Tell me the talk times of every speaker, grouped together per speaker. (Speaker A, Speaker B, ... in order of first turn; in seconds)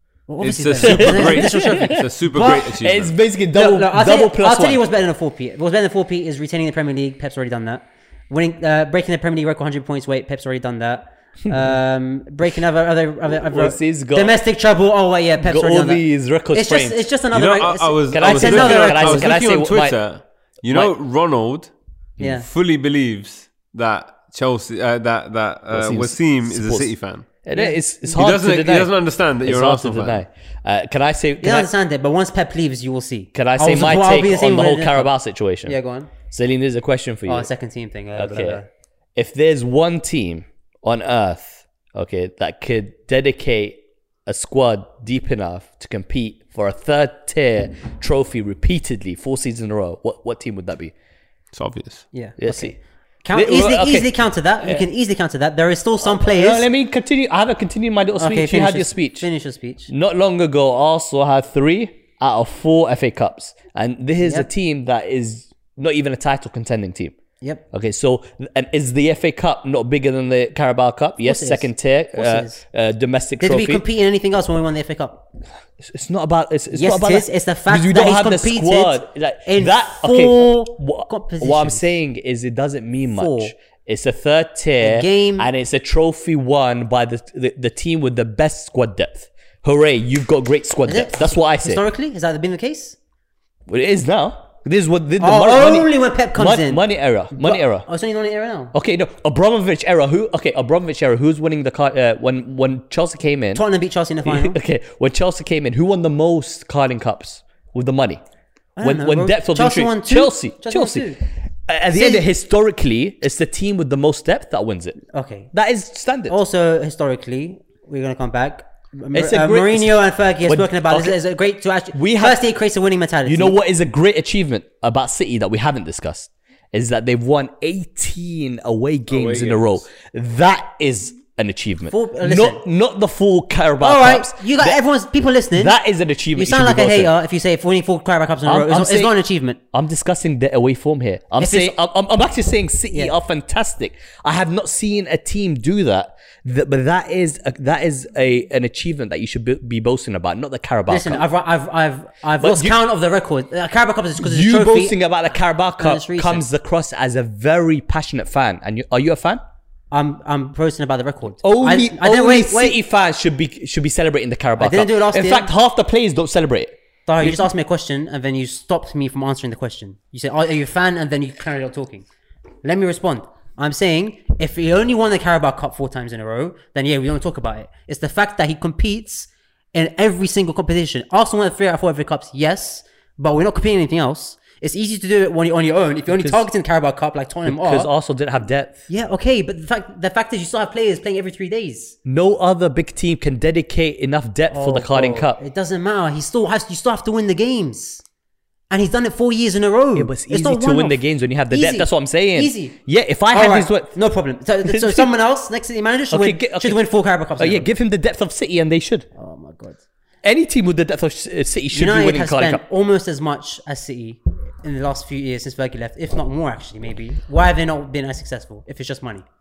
Speaker A: 0.3-2.8, 3.5-19.3, 22.2-22.5, 27.5-27.8, 31.4-35.1, 35.6-36.1, 37.3-38.7, 52.1-56.7, 58.2-59.9, 64.2-64.5, 71.2-72.6, 73.4-75.2, 76.7-81.9, 83.1-83.5, 84.8-85.5, 90.9-93.0, 95.2-98.7, 103.5-104.6, 108.8-111.2, 111.9-112.2, 115.1-115.5, 116.3-123.6, 131.9-132.6, 133.8-135.8, 136.3-139.6, 141.4-141.8, 150.9-155.0, 155.8-156.4, 159.9-162.8, 164.6-165.5, 167.1-172.1, 172.6-187.9, 188.9-192.0, 194.5-198.0, 198.7-202.8, 203.3-207.7, 209.1-209.8, 211.7-219.2
Speaker B: 0.4-3.1, 17.3-27.3, 28.1-30.2, 51.5-52.0, 129.1-129.8
Speaker C: 0.8-4.8, 13.3-14.4, 15.4-17.0, 18.1-20.0, 25.7-28.9, 29.4-31.7, 33.3-35.8, 36.3-37.5, 38.1-38.6, 39.1-50.9, 52.4-52.8, 53.3-54.1, 56.0-59.3, 59.9-67.2, 67.7-73.8, 75.8-91.8, 93.7-97.8, 98.7-103.6, 104.2-108.2, 108.8-111.2, 111.7-115.0, 115.5-116.3, 119.1-121.2, 121.9-122.4, 123.2-134.8, 135.5-137.1, 138.4-139.1, 139.7-151.2, 152.4-152.8, 154.2-159.4, 161.4-167.5, 186.1-186.4, 187.4-188.8, 192.1-195.4, 199.9-203.9, 204.6-205.1, 206.1-206.8, 207.4-209.1, 210.2-212.6